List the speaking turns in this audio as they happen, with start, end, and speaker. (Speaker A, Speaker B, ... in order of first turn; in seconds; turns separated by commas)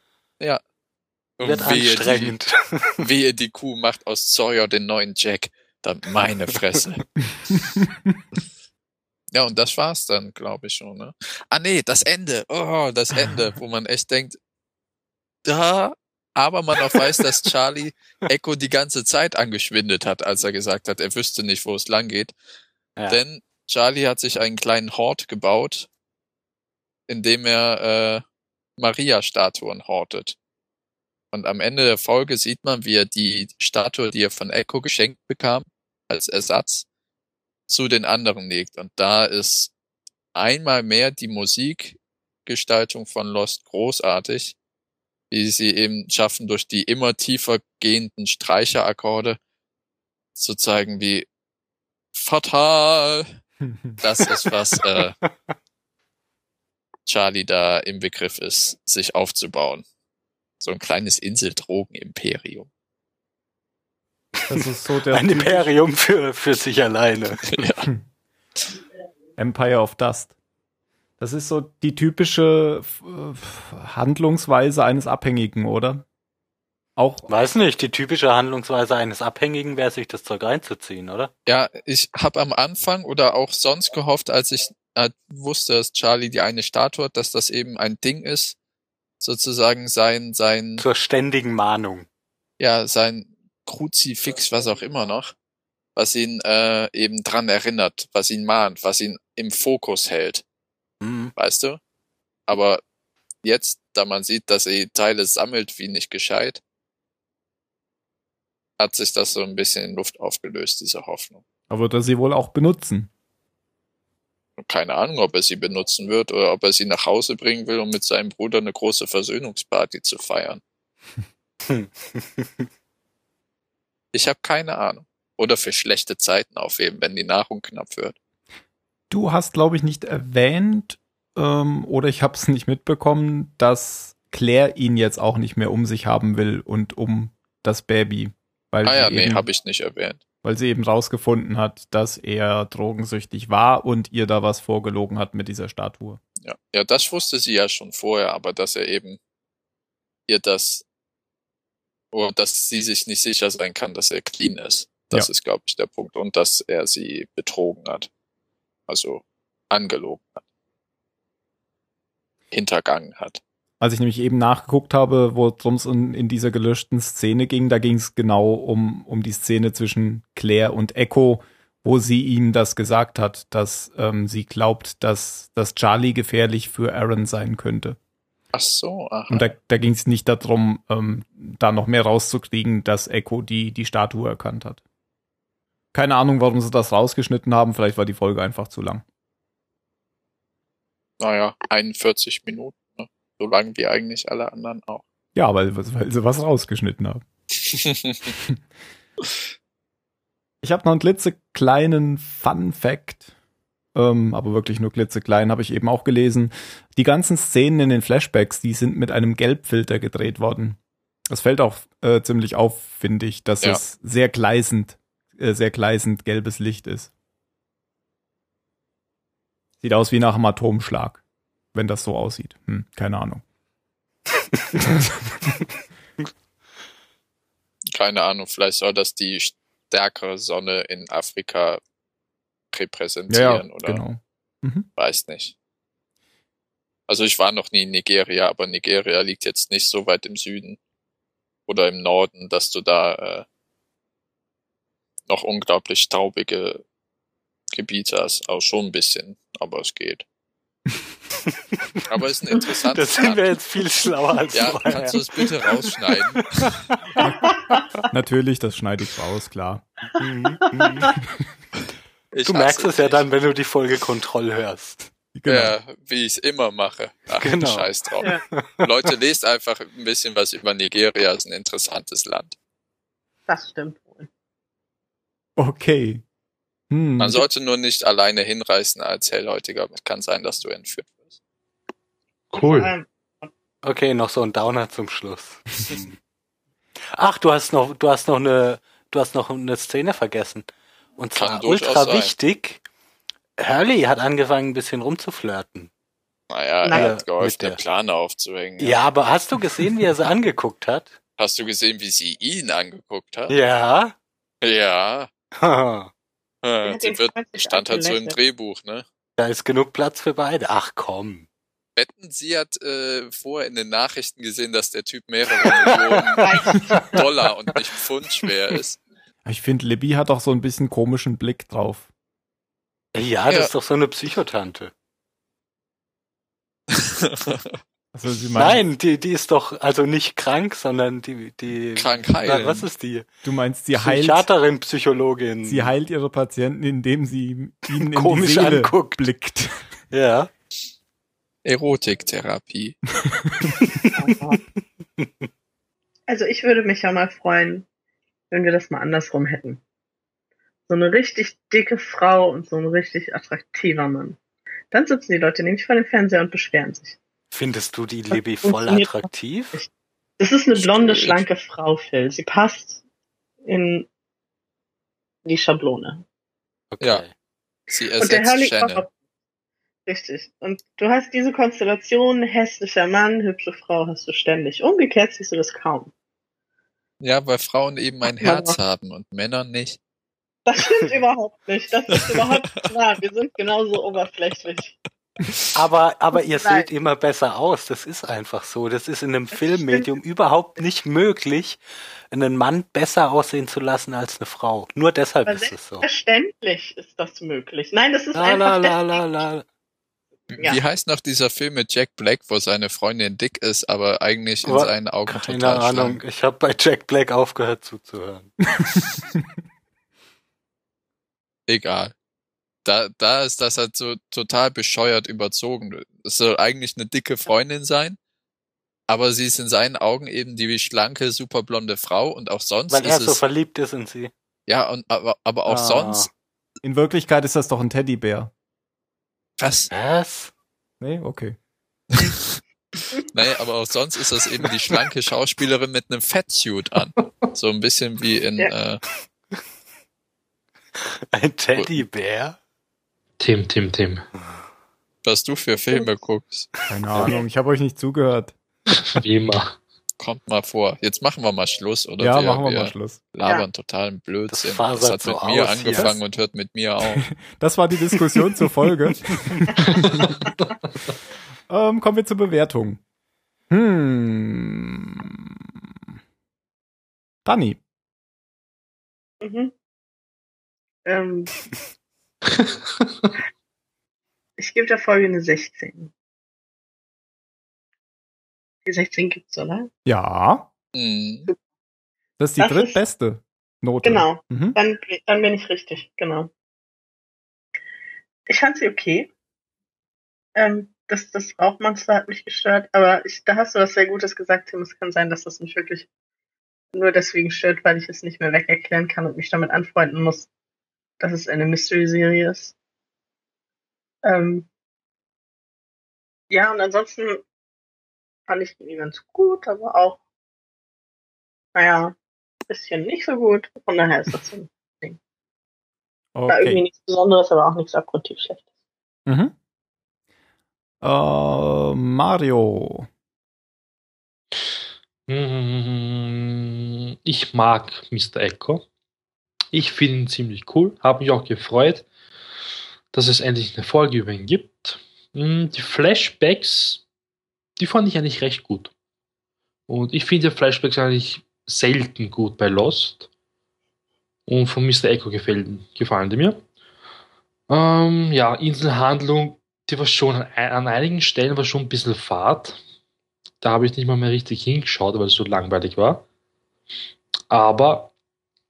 Speaker A: 1.4-2.4, Speaker B: 1.4-3.1, Speaker A: 3.0-7.1, Speaker C: 7.8-8.2, Speaker A: 9.3-14.4, Speaker A: 15.4-22.3, Speaker A: 23.1-25.9, Speaker A: 27.1-28.2, Speaker A: 28.8-30.4, Speaker A: 31.3-36.9, Speaker A: 37.7-39.7, Speaker A: 40.4-44.6, Speaker A: 45.3-49.4, Speaker A: 50.4-51.3, Speaker A: 52.1-53.3, Speaker C: 53.6-54.0, Speaker A: 54.0-55.2, Speaker A: 57.1-59.8, Speaker A: 60.6-62.7, Speaker C: 64.5-65.7, Speaker B: 64.5-67.7, Speaker A: 67.5-67.9, Speaker C: 69.4-70.3, Speaker C: 71.2-76.1, Speaker C: 77.0-77.3, Speaker B: 77.3-81.3, Speaker A: 81.5-88.6, Speaker A: 89.2-90.8, Speaker B: 90.8-92.1, Speaker A: 92.6-95.3, Speaker A: 96.0-100.4, Speaker B: 101.0-101.3, Speaker A: 101.4-101.8, Speaker A: 102.5-102.8, Speaker A: 103.4-106.6, Speaker A: 108.8-111.4, Speaker C: 111.7-113.1, Speaker A: 114.6-120.6, Speaker B: 121.7-122.7, Speaker A: 124.1-128.2, Speaker C: 129.1-139.4, Speaker A: 138.8-140.2, Speaker C: 140.4-146.2, Speaker A: 146.4-149.2, Speaker A: 150.3-150.8, Speaker A: 152.1-158.1, Speaker A: 158.9-160.4, Speaker A: 162.5-163.4, Speaker C: 163.8-178.0, Speaker A: 178.5-179.5, Speaker C: 179.3-184.8, Speaker C: 185.9-189.0, Speaker A: 191.2-195.0, Speaker C: 195.4-197.2, Speaker A: 197.7-198.2, Speaker C: 200.6-203.3, Speaker C: 203.9-210.8, Speaker C: 211.3-217.1, Speaker C: 219.8-221.2, Speaker C: 221.7-223.4, Speaker C: 224.8-225.0, Speaker A: 227.9-231.8, Speaker A: 232.7-234.0, Speaker C: 233.3-234.9, Speaker A: 235.0-235.5, Speaker A: 237.1-240.8, Speaker A: 241.7-243.4, Speaker A: 245.3-246.8, Speaker A: 247.7-250.2, Speaker A: 252.1-253.5, Speaker B: 252.9-255.7, Speaker A: 254.5-256.7, Speaker B: 256.6-257.8, Speaker C: 258.1-259.9, Speaker B: 260.2-261.1, Speaker A: 262.3-263.2, Speaker B: 262.5-265.0, Speaker C: 265.3-265.8, Speaker A: 265.5-268.3, Speaker B: 267.4-268.9, Speaker A: 268.8-272.6, Speaker D: 273.5-274.3, Speaker C: 275.6-276.2, Speaker C: 276.9-277.4, Speaker A: 277.2-281.1, Speaker E: 282.5-282.9, Speaker D: 282.6-283.5, Speaker B: 283.8-286.2, Speaker B: 287.1-292.8, Speaker A: 291.4-292.3, Speaker B: 293.6-295.9, Speaker A: 296.5-299.1, Speaker D: 296.8-297.1, Speaker B: 296.9-297.8, Speaker B: 298.8-301.1, Speaker A: 301.4-303.6, Speaker B: 303.5-304.1, Speaker A: 304.6-305.3, Speaker B: 305.6-306.1, Speaker A: 306.6-309.1, Speaker D: 306.9-308.4, Speaker B: 309.4-311.5, Speaker A: 312.0-319.0, Speaker B: 315.6-317.1, Speaker D: 316.4-317.1, Speaker C: 319.4-322.1, Speaker B: 323.1-324.9, Speaker A: 326.9-327.6, Speaker C: 328.1-328.9, Speaker B: 328.6-333.3, Speaker A: 332.0-332.9, Speaker C: 333.4-334.5, Speaker B: 333.9-335.9, Speaker C: 335.6-339.8, Speaker B: 337.9-339.3, Speaker B: 340.1-340.5, Speaker A: 341.6-343.0, Speaker C: 343.2-343.8, Speaker B: 343.8-344.3, Speaker D: 344.1-344.6, Speaker D: 346.3-347.9, Speaker D: 348.5-349.8, Speaker D: 350.9-354.4, Speaker D: 354.9-357.2, Speaker B: 357.5-359.8, Speaker D: 358.3-363.0, Speaker A: 360.8-361.4, Speaker D: 363.6-364.1, Speaker D: 365.4-366.2, Speaker B: 366.9-367.3, Speaker A: 367.9-369.0, Speaker D: 368.2-369.1, Speaker D: 370.1-376.1, Speaker A: 377.2-380.0, Speaker D: 378.4-378.8, Speaker D: 380.7-384.9, Speaker A: 382.2-382.4, Speaker B: 385.7-391.8, Speaker D: 386.4-386.9, Speaker D: 389.5-390.2, Speaker B: 392.3-396.0, Speaker D: 395.5-399.2, Speaker B: 398.4-399.6, Speaker A: 400.5-406.2, Speaker B: 404.6-408.6, Speaker A: 411.7-412.1, Speaker A: 412.9-418.2, Speaker A: 419.1-423.4, Speaker B: 422.9-424.3, Speaker A: 424.7-426.3, Speaker B: 425.7-426.3, Speaker C: 426.8-428.5, Speaker A: 429.6-429.9, Speaker B: 429.9-430.5, Speaker C: 431.0-431.6, Speaker A: 432.1-432.6, Speaker A: 433.2-439.0, Speaker B: 441.3-442.6, Speaker E: 443.4-444.2, Speaker A: 445.2-446.7, Speaker C: 446.9-448.6, Speaker E: 448.9-449.8, Speaker A: 450.2-457.2, Speaker C: 452.2-453.2, Speaker B: 454.5-456.1, Speaker C: 457.2-460.3, Speaker C: 461.7-463.0, Speaker C: 463.7-465.7, Speaker C: 467.4-467.8, Speaker D: 469.4-469.7, Speaker D: 471.1-471.5, Speaker E: 472.5-473.1, Speaker D: 474.6-476.1, Speaker D: 478.9-479.9, Speaker C: 480.1-480.7, Speaker A: 480.9-481.5, Speaker C: 482.4-484.8, Speaker D: 482.6-483.0, Speaker D: 484.0-486.5, Speaker D: 488.5-489.3, Speaker D: 490.6-496.1, Speaker D: 496.9-500.5, Speaker D: 501.2-502.8, Speaker D: 504.2-504.7, Speaker D: 506.5-507.4, Speaker D: 508.5-510.2, Speaker D: 511.8-512.1, Speaker D: 512.7-515.2, Speaker C: 516.4-516.8, Speaker D: 516.5-518.6, Speaker C: 519.3-519.5, Speaker C: 521.0-523.1, Speaker E: 525.3-528.9, Speaker E: 529.7-532.1, Speaker E: 533.1-537.1, Speaker E: 537.8-538.9, Speaker E: 539.9-543.3, Speaker E: 544.5-546.6, Speaker E: 547.7-552.8, Speaker E: 553.6-556.2, Speaker E: 557.5-558.1